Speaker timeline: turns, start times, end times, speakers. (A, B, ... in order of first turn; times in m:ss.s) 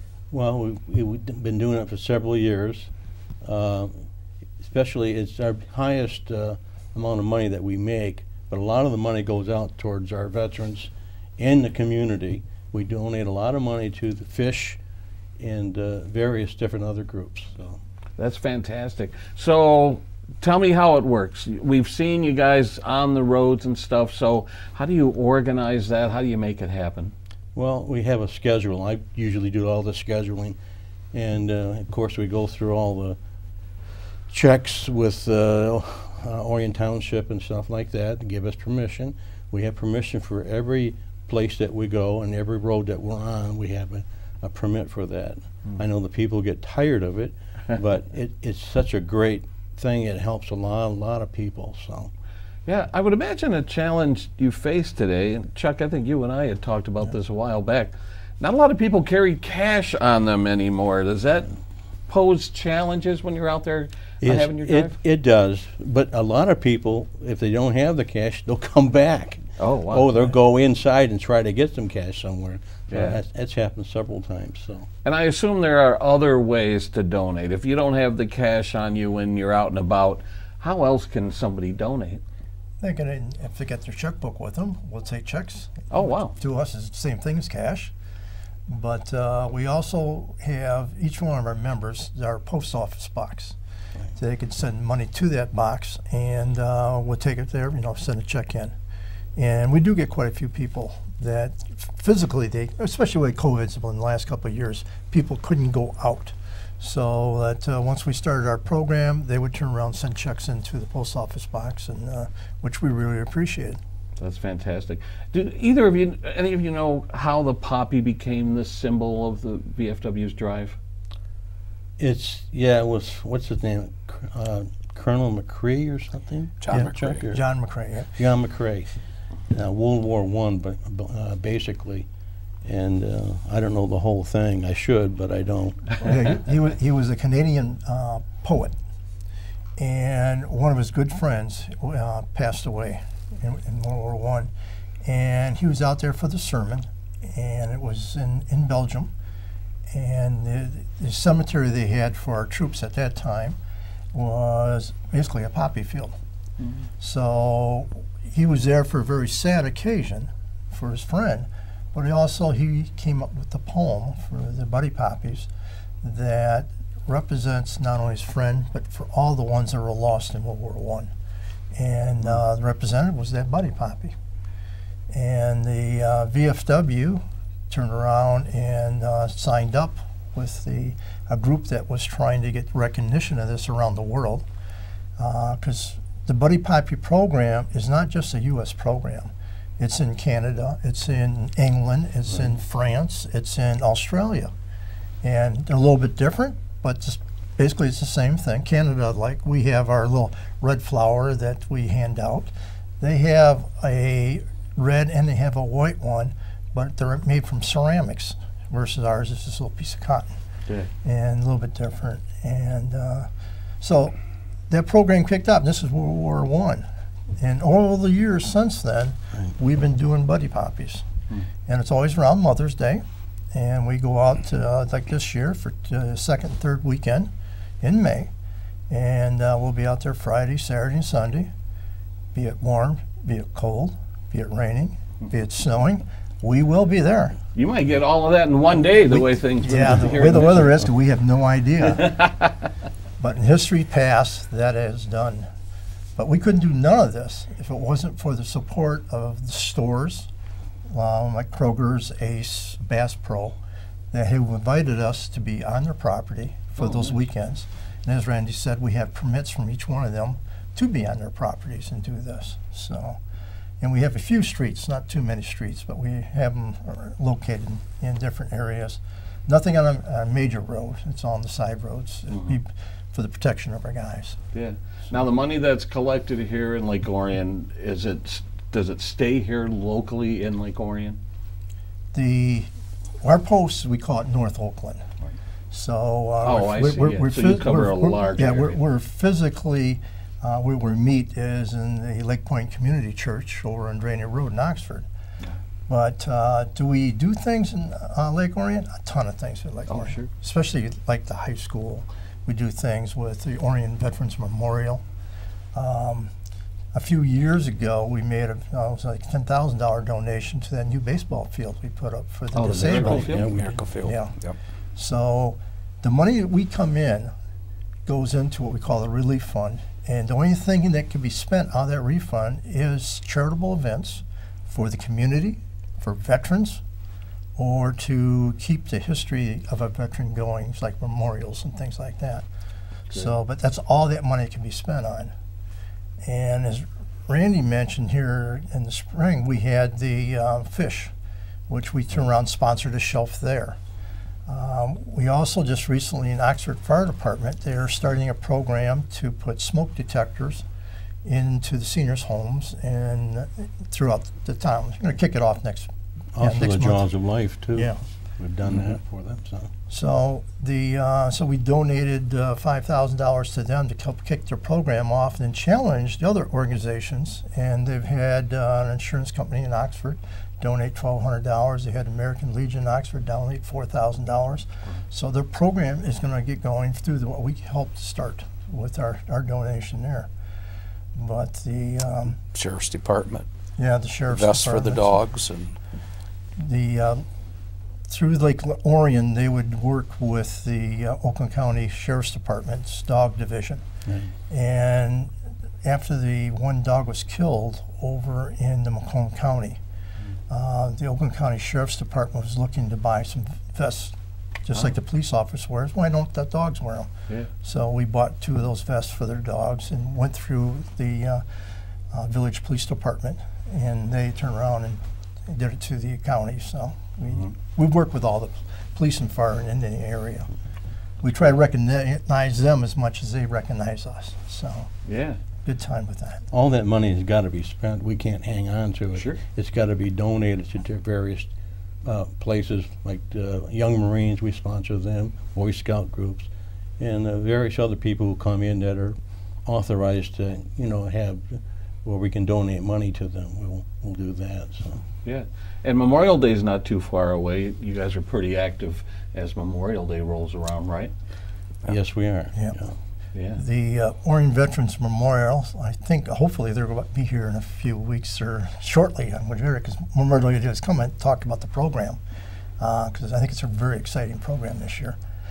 0:00.3-0:02.9 A
0:03.4-0:04.0 A
0:04.6-0:14.8 A
0:15.4-0:17.8 A
0:18.2-0:27.1 B
0:27.5-0:30.6 A
0:31.1-0:33.2 A
0:34.3-0:52.1 A
0:52.6-1:01.5 B
1:02.1-1:05.0 B
1:04.2-1:14.9 A
1:09.6-1:10.3 B
1:12.9-1:13.2 B
1:15.0-1:22.2 B
1:22.8-1:27.9 C
1:25.9-1:26.3 B
1:28.7-1:33.6 C
1:34.2-1:38.7 C
1:39.4-1:53.8 C
1:54.2-2:00.8 B
2:02.0-2:07.4 A
2:06.6-2:07.2 D
2:06.7-2:08.1 C
2:08.1-2:08.9 A
2:09.5-2:12.1 A
2:12.6-2:16.0 A
2:16.0-2:18.7 C
2:19.8-2:24.5 C
2:25.0-2:29.1 C
2:29.9-2:33.6 C
2:34.1-2:36.2 C
2:36.6-2:36.9 B
2:37.0-2:45.5 C
2:46.0-2:51.1 C
2:51.7-2:54.1 C
2:55.1-3:04.4 C
3:05.2-3:14.5 C
3:15.2-3:30.3 C
3:31.0-3:33.3 C
3:33.8-3:34.2 C
3:34.7-3:36.8 C
3:37.4-3:41.0 C
3:41.6-3:47.3 C
3:47.8-3:48.3 C
3:48.9-3:51.5 C
3:52.3-3:57.4 C
3:57.5-4:00.8 B
3:59.0-4:02.2 C
4:02.1-4:02.5 B
4:03.2-4:05.5 C
4:06.2-4:10.3 C
4:10.9-4:13.6 C
4:14.1-4:23.2 C
4:16.8-4:17.1 B
4:23.8-4:34.4 C
4:34.5-4:41.2 B
4:42.1-4:42.7 C
4:43.2-4:45.0 C
4:45.7-4:55.0 C
4:46.4-4:48.8 B
4:55.9-5:05.0 C
4:59.9-5:00.3 B
5:05.7-5:06.3 C
5:06.9-5:13.4 C
5:12.5-5:13.5 B
5:12.8-5:13.8 A
5:13.5-5:14.5 D
5:14.0-5:14.3 C
5:15.0-5:17.3 C
5:18.0-5:26.8 C
5:27.6-5:32.4 C
5:33.1-5:35.3 C
5:36.2-5:41.1 C
5:41.7-5:43.8 C
5:44.5-5:50.6 C
5:51.2-5:57.1 C
5:56.3-5:59.7 A
5:57.7-5:58.0 C
5:59.9-6:20.3 C
6:21.2-6:22.4 C
6:22.5-6:23.4 D
6:23.8-6:25.2 C
6:24.3-6:25.8 D
6:26.6-6:27.2 C
6:28.1-6:33.8 C
6:34.5-6:35.3 C
6:35.8-6:39.8 C
6:40.5-6:47.1 C
6:47.6-6:51.4 C
6:52.1-7:00.5 C
7:01.2-7:04.9 C
7:05.0-7:05.4 B
7:05.6-7:06.4 C
7:06.5-7:11.5 A
7:09.1-7:09.4 B
7:12.0-7:25.0 A
7:25.2-7:31.1 B
7:31.8-7:32.9 A
7:33.3-7:33.6 B
7:33.6-7:42.2 C
7:42.8-7:45.2 C